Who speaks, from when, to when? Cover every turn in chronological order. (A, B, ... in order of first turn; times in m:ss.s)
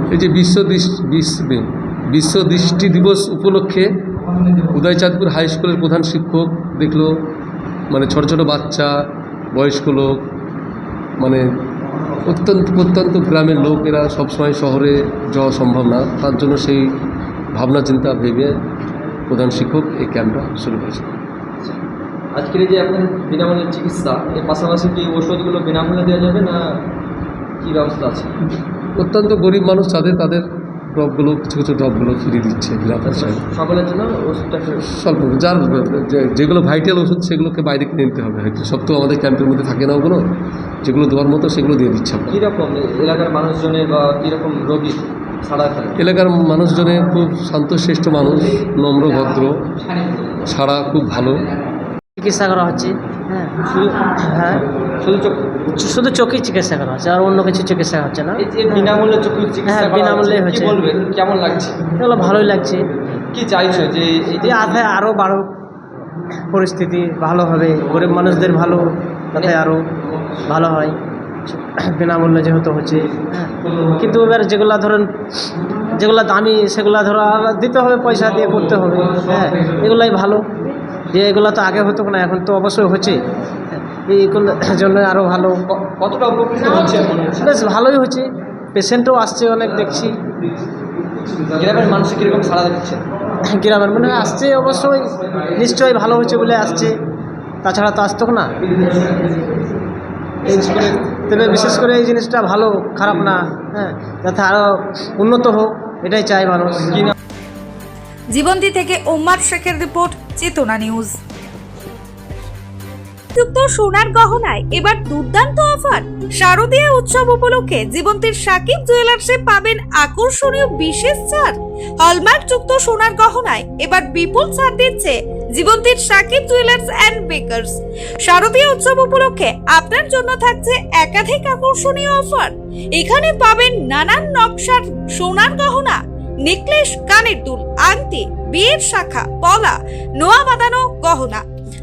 0:00.1-0:03.9 A
0:04.7-0:07.1 A
0:07.9-0:08.9 A
0:09.5-0:10.2 A
0:12.3-0:16.9 A
0:17.5-0:18.5 A
0:19.3-0:21.2 A
0:22.3-0:26.8 B
0:27.6-0:28.3 B
0:29.0-0:33.4 A
0:33.0-0:34.9 B
0:34.9-0:40.2 A
0:40.8-0:42.4 A
0:42.3-0:46.0 B
0:46.0-0:49.7 A
0:50.4-0:51.5 A
0:52.2-0:54.6 C
0:55.0-0:55.5 B
0:55.7-0:58.9 C
0:58.4-1:01.8 B
0:59.7-1:00.8 C
1:02.0-1:02.9 C
1:03.3-1:04.9 B
1:04.4-1:05.5 C
1:06.5-1:09.8 C
1:10.4-1:11.0 C
1:11.5-1:15.1 C
1:15.8-1:20.5 C
1:21.1-1:25.6 C
1:25.7-1:27.5 B
1:27.4-1:30.2 C
1:31.3-1:33.0 B
1:33.4-1:37.0 C
1:37.6-1:38.5 C
1:38.8-1:39.4 B
1:40.4-1:47.1 C
1:48.3-1:51.1 D
1:53.3-2:21.4 D